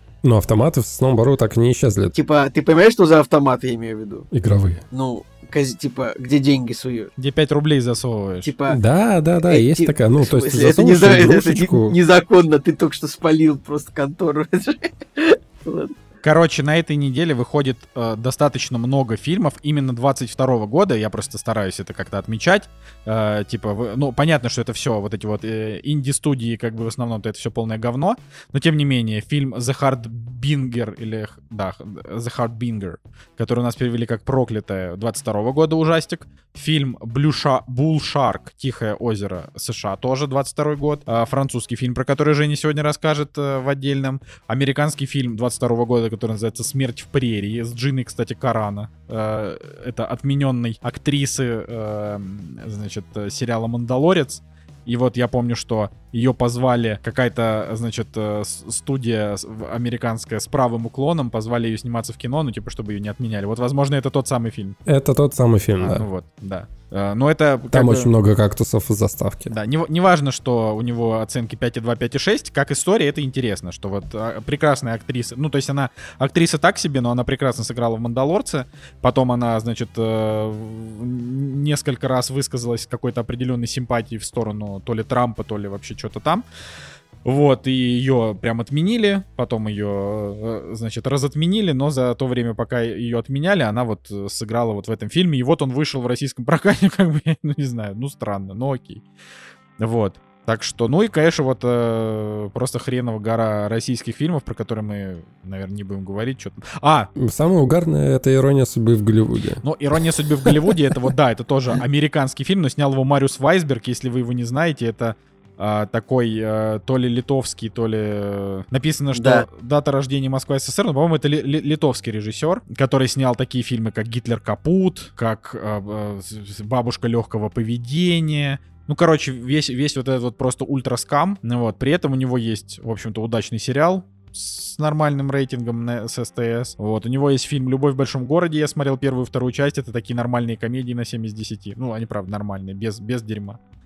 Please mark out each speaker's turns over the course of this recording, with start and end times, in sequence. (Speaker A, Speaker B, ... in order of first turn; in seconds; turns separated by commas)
Speaker A: 0.2-2.2, Speaker B: 2.1-4.3, Speaker A: 4.3-4.8, Speaker B: 4.9-7.1, Speaker C: 7.2-8.5, Speaker B: 8.4-8.8, Speaker A: 8.7-12.0, Speaker B: 9.5-15.9, Speaker C: 16.2-64.8, Speaker A: 64.9-66.0, Speaker C: 65.8-68.1, Speaker A: 67.7-69.6, Speaker C: 69.5-86.5, Speaker C: 87.2-99.0, Speaker C: 99.8-107.1, Speaker A: 107.2-109.6, Speaker C: 109.6-143.6, Speaker B: 119.1-119.5